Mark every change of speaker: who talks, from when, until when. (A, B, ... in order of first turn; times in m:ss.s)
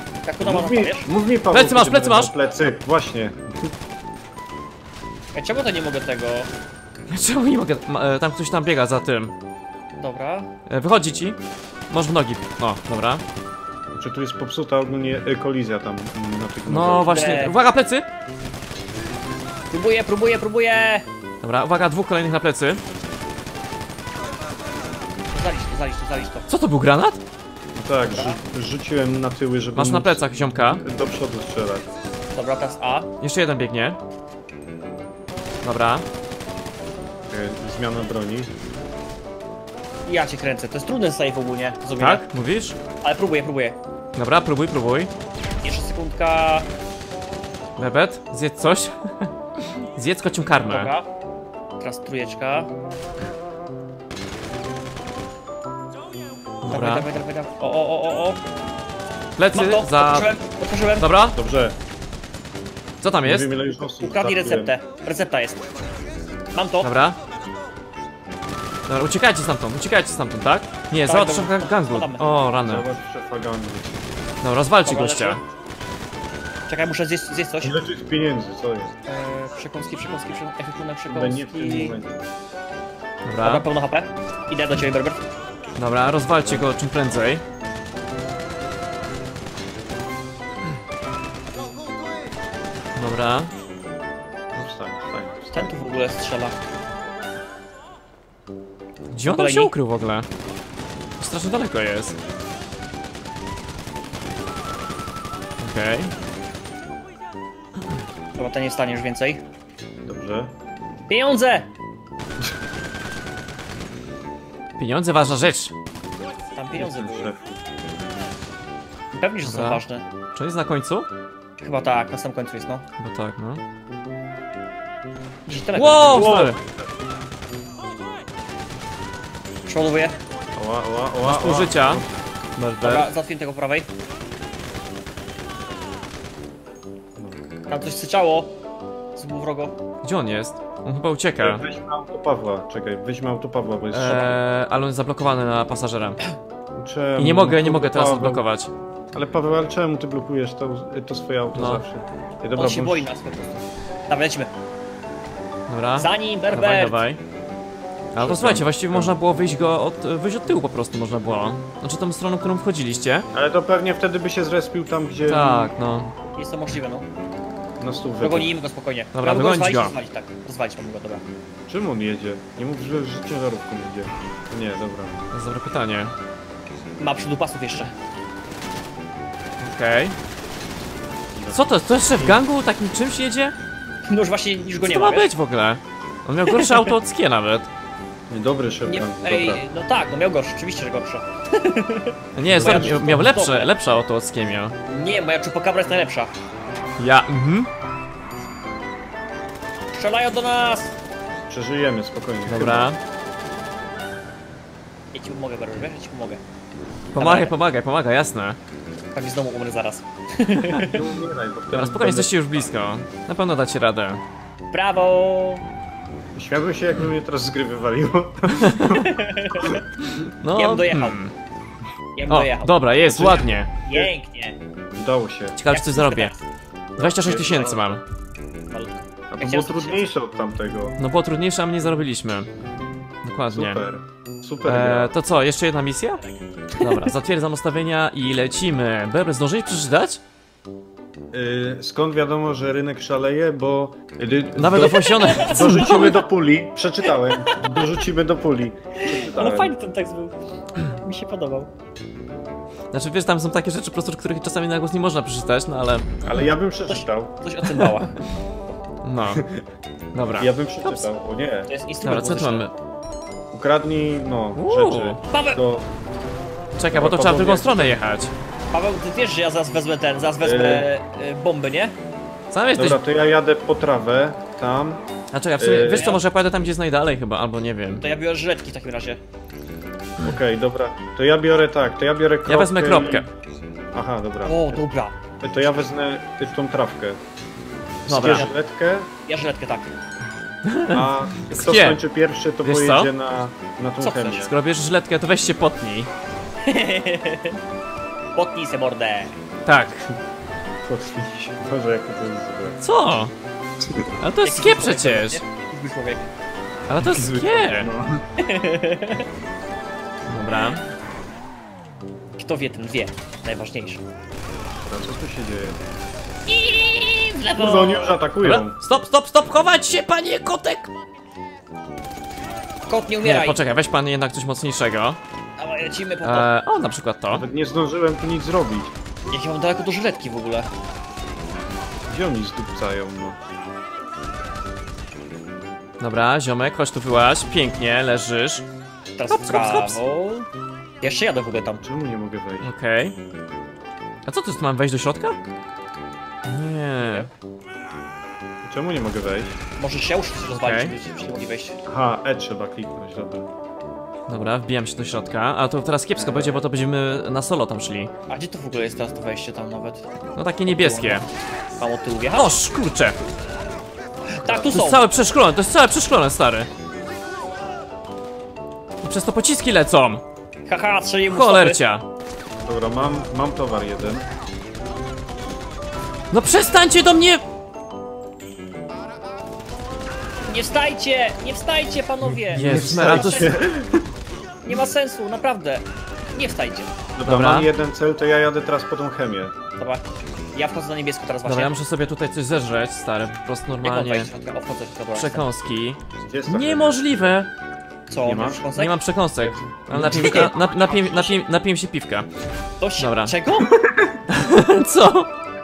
0:00.2-0:01.1 A
0:00.4-0:03.7 B
0:01.5-0:02.3 C
0:05.3-0:06.5 A
0:07.1-0:09.3 C
0:10.0-0:10.5 A
0:10.7-0:11.4 C
0:11.9-0:13.2 C
0:13.9-0:17.2 B
0:16.6-0:18.1 C
0:17.0-0:17.5 A
0:19.7-0:21.0 A
0:21.4-0:22.8 C
0:25.3-0:26.5 A
0:26.5-0:27.2 C
0:27.8-0:30.2 B
0:28.0-0:28.4 A
0:29.7-0:30.8 C
0:30.8-0:31.9 B
0:32.3-0:33.1 A
0:33.2-0:34.0 C
0:35.6-0:36.0 C
0:37.3-0:38.5 B
0:40.0-0:42.2 A
0:42.0-0:42.8 C
0:43.0-0:43.8 A
0:44.2-0:45.1 C
0:45.6-0:46.7 A
0:47.8-0:50.9 C
0:50.6-0:51.0 A
0:51.8-0:52.7 A
0:56.6-0:57.1 C
0:56.7-0:58.4 A
0:59.4-1:00.3 C
0:59.5-1:01.1 A
1:01.0-1:01.4 C
1:01.3-1:01.8 B
1:03.0-1:03.5 C
1:03.2-1:04.7 B
1:03.8-1:05.8 A
1:06.5-1:06.9 A
1:06.8-1:07.2 C
1:08.9-1:12.8 C
1:11.1-1:12.3 A
1:12.6-1:14.0 B
1:14.4-1:15.4 C
1:14.8-1:15.4 A
1:16.7-1:17.8 A
1:17.6-1:18.9 B
1:19.1-1:22.0 A
1:21.1-1:22.2 B
1:23.2-1:23.7 C
1:23.4-1:25.2 A
1:25.8-1:27.4 C
1:26.4-1:26.7 B
1:33.0-1:33.5 C
1:34.5-1:35.8 B
1:35.5-1:36.6 A
1:39.1-1:40.3 C
1:39.2-1:39.7 A
1:41.2-1:42.2 C
1:45.6-1:46.1 C
1:48.4-1:49.4 A
1:50.0-1:50.5 B
1:51.1-1:51.7 A
1:54.8-1:55.7 C
1:56.6-1:57.3 A
1:56.7-1:57.6 B
1:59.1-2:00.0 A
1:59.4-1:59.8 C
2:00.3-2:01.1 C
2:01.6-2:02.8 A
2:03.0-2:03.6 C
2:05.4-2:06.5 A
2:05.7-2:06.6 C
2:06.1-2:06.7 B
2:09.6-2:10.2 A
2:10.5-2:12.1 B
2:11.2-2:12.0 C
2:12.6-2:13.1 C
2:12.8-2:13.9 A
2:17.7-2:18.5 A
2:19.2-2:19.7 A
2:20.0-2:21.6 C
2:21.4-2:24.4 B
2:23.9-2:26.2 C
2:26.7-2:28.4 B
2:27.2-2:28.7 C
2:29.1-2:33.1 B
2:31.5-2:31.8 C
2:32.6-2:34.5 A
2:35.7-2:37.2 C
2:36.0-2:37.0 A
2:38.1-2:43.3 C
2:38.2-2:39.2 B
2:43.3-2:45.7 B
2:45.3-2:46.1 C
2:46.4-2:47.1 A
2:47.8-2:48.5 B
2:48.2-2:51.2 A
2:49.1-2:49.9 C
2:51.7-2:55.2 B
2:55.3-2:56.1 C
2:57.0-2:57.9 A
2:59.6-3:00.2 C
3:01.3-3:02.4 B
3:01.5-3:03.5 C
3:04.1-3:05.3 A
3:04.8-3:07.7 C
3:06.5-3:06.9 A
3:08.3-3:09.6 B
3:08.8-3:13.7 A
3:12.3-3:14.8 C
3:12.5-3:13.2 B
3:14.9-3:16.3 A
3:17.0-3:17.7 C
3:19.9-3:20.9 A
3:21.5-3:22.9 B
3:22.5-3:23.0 C
3:25.1-3:26.4 A
3:27.1-3:28.6 C
3:27.2-3:27.5 A
3:29.1-3:31.0 A
3:30.7-3:32.7 B
3:31.7-3:34.2 C
3:34.7-3:35.6 A
3:36.3-3:39.8 B
3:38.6-3:38.9 C
3:39.0-3:39.8 A
3:40.2-3:41.3 C
3:40.6-3:41.2 A
3:42.2-3:42.8 A
3:42.3-3:43.7 C
3:43.0-3:44.1 B
3:43.8-3:44.6 A
3:45.0-3:45.6 B
3:45.5-3:46.3 C
3:45.7-3:46.4 A
3:47.0-3:47.9 B
3:47.0-3:48.0 C
3:47.5-3:47.8 A
3:48.7-3:50.1 A
3:49.3-3:51.0 B
3:51.0-3:52.5 C
3:53.2-3:53.8 C
3:53.5-3:55.1 B
3:54.6-3:56.2 C
3:56.2-3:57.0 A
3:56.8-4:00.2 C
4:01.3-4:09.8 B
4:04.6-4:06.1 C
4:04.9-4:06.2 A
4:07.1-4:07.8 A
4:09.0-4:11.7 A
4:12.9-4:16.1 C
4:16.2-4:17.3 B
4:16.9-4:18.2 A
4:19.0-4:19.4 C
4:19.3-4:19.6 B
4:20.1-4:20.5 C
4:20.4-4:21.7 B
4:21.7-4:22.7 A
4:22.0-4:22.7 C
4:23.5-4:25.9 B
4:24.5-4:25.2 C
4:25.3-4:25.6 A
4:26.8-4:28.3 C
4:26.9-4:28.0 B
4:28.7-4:31.9 A
4:30.4-4:30.9 B
4:32.5-4:33.0 C
4:32.8-4:35.0 B
4:35.3-4:38.0 C
4:35.6-4:36.1 B
4:35.9-4:36.2 A
4:38.0-4:39.2 A
4:40.2-4:43.3 B
4:42.4-4:43.3 C
4:43.9-4:44.8 B
4:44.4-4:45.1 A
4:45.4-4:47.2 B
4:48.0-4:49.1 B
4:48.1-4:48.5 C
4:49.3-4:49.9 A
4:50.6-4:52.0 C
4:50.9-4:54.5 B
4:52.6-4:53.1 C
4:54.0-4:54.5 A
4:54.4-4:56.1 C
4:56.6-4:57.6 A
4:58.3-4:59.3 A
4:59.6-5:00.1 C
5:00.8-5:02.8 B
5:02.8-5:03.3 C
5:03.8-5:04.1 B
5:04.2-5:05.4 C
5:04.4-5:06.3 A
5:06.9-5:07.9 C
5:07.0-5:08.2 B
5:08.4-5:09.2 A
5:10.3-5:10.8 C
5:12.4-5:14.0 A
5:14.9-5:15.8 B
5:16.5-5:18.2 A
5:17.5-5:18.8 B
5:18.4-5:20.9 C
5:22.9-5:23.6 A
5:23.2-5:25.2 C
5:25.6-5:26.5 A
5:26.2-5:27.4 C
5:27.3-5:28.9 B
5:29.3-5:30.7 A
5:32.1-5:33.4 B
5:36.0-5:38.6 C
5:39.2-5:40.5 A
5:39.3-5:40.0 C
5:41.0-5:41.8 A
5:41.8-5:42.7 B
5:42.6-5:43.2 C
5:44.2-5:45.4 C
5:46.4-5:47.3 C
5:48.6-5:49.6 B
5:49.8-5:51.8 A
5:50.5-5:50.9 C
5:51.8-5:53.5 B
5:54.3-5:58.1 C
5:56.2-5:56.7 B
5:58.3-6:00.1 A
6:00.4-6:01.2 C
6:00.6-6:01.2 A
6:01.8-6:02.5 A
6:02.3-6:03.2 C
6:04.3-6:05.0 A
6:04.4-6:04.8 B
6:04.6-6:06.7 C
6:09.0-6:10.2 C
6:10.6-6:11.8 A
6:11.3-6:12.0 C
6:12.6-6:14.2 B
6:16.3-6:17.4 C
6:20.5-6:23.6 A
6:22.4-6:24.1 B
6:22.5-6:23.6 C
6:24.6-6:26.9 A
6:27.2-6:29.5 B
6:27.2-6:27.7 C
6:29.8-6:30.0 A
6:30.5-6:31.7 A
6:31.4-6:34.3 C
6:33.8-6:35.5 A
6:35.1-6:37.5 C
6:36.2-6:37.4 B
6:38.1-6:39.0 A
6:38.2-6:38.6 B
6:38.7-6:42.3 C
6:39.4-6:40.6 B
6:39.9-6:41.4 A
6:42.8-6:43.7 A
6:43.0-6:43.3 C
6:43.6-6:44.2 B
6:44.3-6:45.3 C